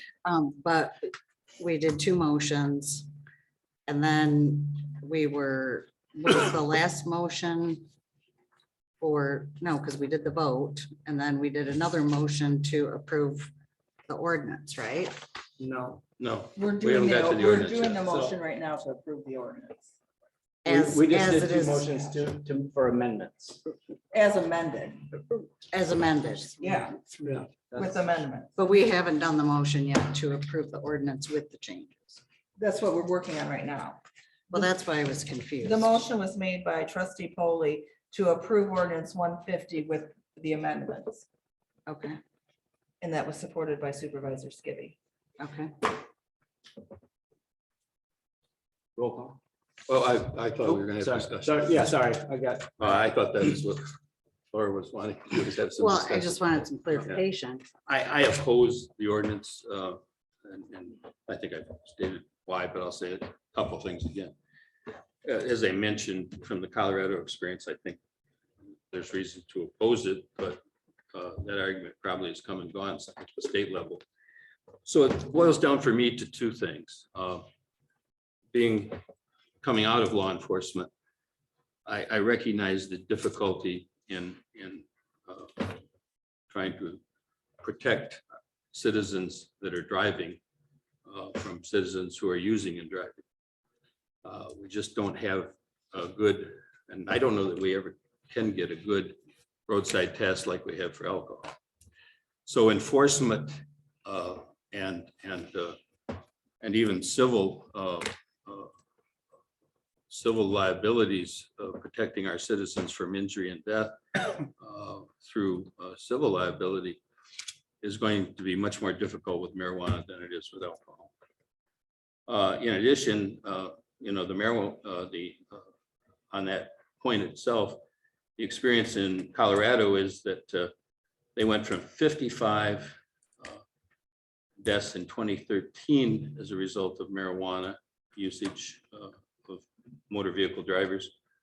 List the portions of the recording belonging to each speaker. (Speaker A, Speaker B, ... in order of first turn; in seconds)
Speaker A: 0.2-1.0, 1.6-3.1, 3.9-7.9, 9.0-13.5, 14.1-15.1, 17.2-17.7, 21.2-21.6, 25.7-26.5, 28.9-31.9, 55.7-57.6
Speaker B: 15.6-16.0, 18.1-18.3, 20.6-23.6, 27.2-28.1, 49.0-49.4, 50.6-53.0
Speaker C: 16.2-18.0, 20.6-21.8, 25.7-26.4, 28.6-29.2, 30.1-32.2, 34.6-35.8, 41.9-42.2, 45.4-45.7, 49.9-51.6, 52.8-53.8, 54.5-64.3, 65.2-68.0, 68.9-70.6, 71.1-74.0, 74.8-77.4, 78.5-79.0, 79.6-80.9, 81.8-85.5, 86.5-87.0, 87.6-88.2, 88.7-90.4, 91.0-93.2, 94.2-99.2, 99.7-101.5, 102.5-105.8, 106.6-108.7, 110.1-114.0, 114.6-117.0, 117.8-121.1, 122.3-125.4, 126.3-127.8, 128.4-130.7, 131.3-133.0, 134.6-141.1
Speaker D: 16.5-19.9, 24.1-25.2, 26.6-27.1, 27.7-28.6, 32.6-34.0, 35.6-41.2, 43.0-45.0